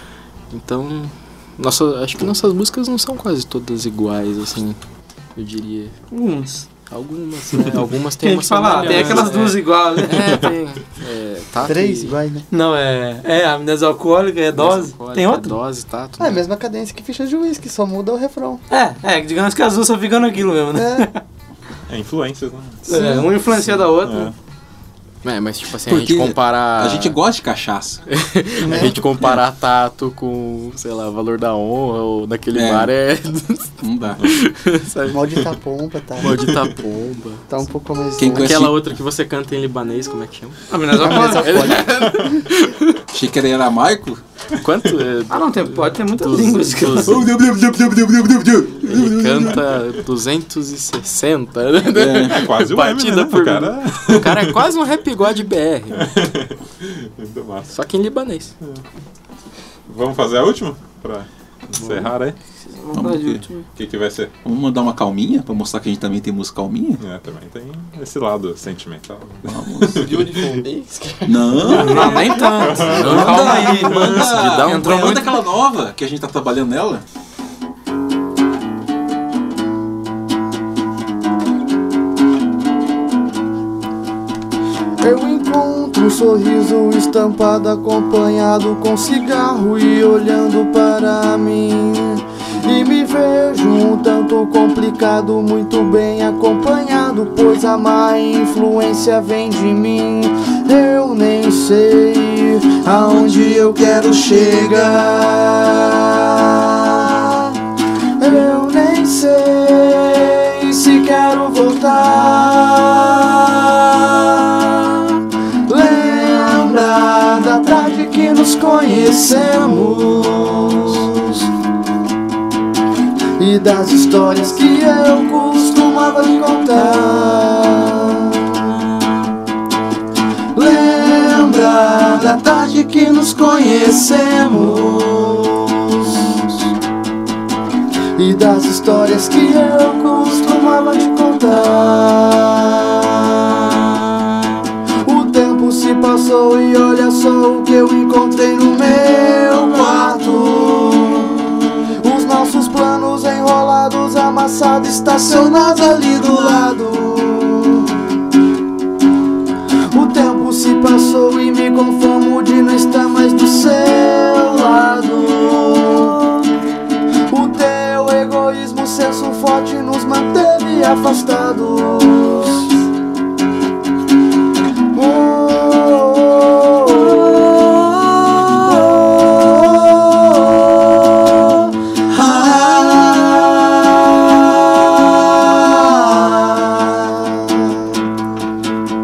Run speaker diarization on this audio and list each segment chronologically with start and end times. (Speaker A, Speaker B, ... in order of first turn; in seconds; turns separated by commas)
Speaker A: 0.5-4.8, Speaker A: 5.3-6.0, Speaker B: 6.1-6.7, Speaker A: 6.9-12.2, Speaker B: 8.2-10.5, Speaker C: 11.6-12.5, Speaker B: 12.5-15.6, Speaker A: 14.5-16.5, Speaker C: 16.2-18.6, Speaker B: 18.7-21.2, Speaker C: 20.7-21.1, Speaker D: 21.9-22.8, Speaker B: 22.9-24.3, Speaker C: 22.9-23.3, Speaker D: 24.0-24.3, Speaker A: 25.2-27.2, Speaker E: 25.9-28.0, Speaker A: 28.1-35.4, Speaker C: 28.6-29.0, Speaker E: 32.5-32.9, Speaker E: 33.8-34.2, Speaker C: 35.1-36.4, Speaker A: 36.2-37.5, Speaker C: 37.5-38.6, Speaker E: 38.1-38.8, Speaker A: 38.2-43.0, Speaker B: 40.7-41.8, Speaker C: 41.0-42.5, Speaker E: 43.1-44.2, Speaker A: 44.5-47.3, Speaker B: 45.3-47.2, Speaker E: 47.0-49.8, Speaker A: 48.8-56.1, Speaker E: 51.9-52.4, Speaker D: 52.3-54.5, Speaker D: 55.9-57.7, Speaker A: 57.7-58.5, Speaker D: 59.9-62.4, Speaker B: 62.7-63.7, Speaker E: 62.9-63.4, Speaker D: 63.8-64.3, Speaker E: 64.4-67.0, Speaker D: 67.0-70.5, Speaker E: 69.4-70.2, Speaker C: 69.9-72.1, Speaker E: 71.2-72.3, Speaker B: 71.7-75.3, Speaker D: 71.9-73.0, Speaker A: 72.6-75.2, Speaker E: 73.0-77.0, Speaker C: 85.0-107.5, Speaker C: 108.2-121.5, Speaker C: 123.4-128.8, Speaker C: 130.5-136.5, Speaker C: 138.2-144.0, Speaker C: 145.0-158.0, Speaker C: 159.9-166.5, Speaker C: 167.3-172.7, Speaker C: 174.9-188.0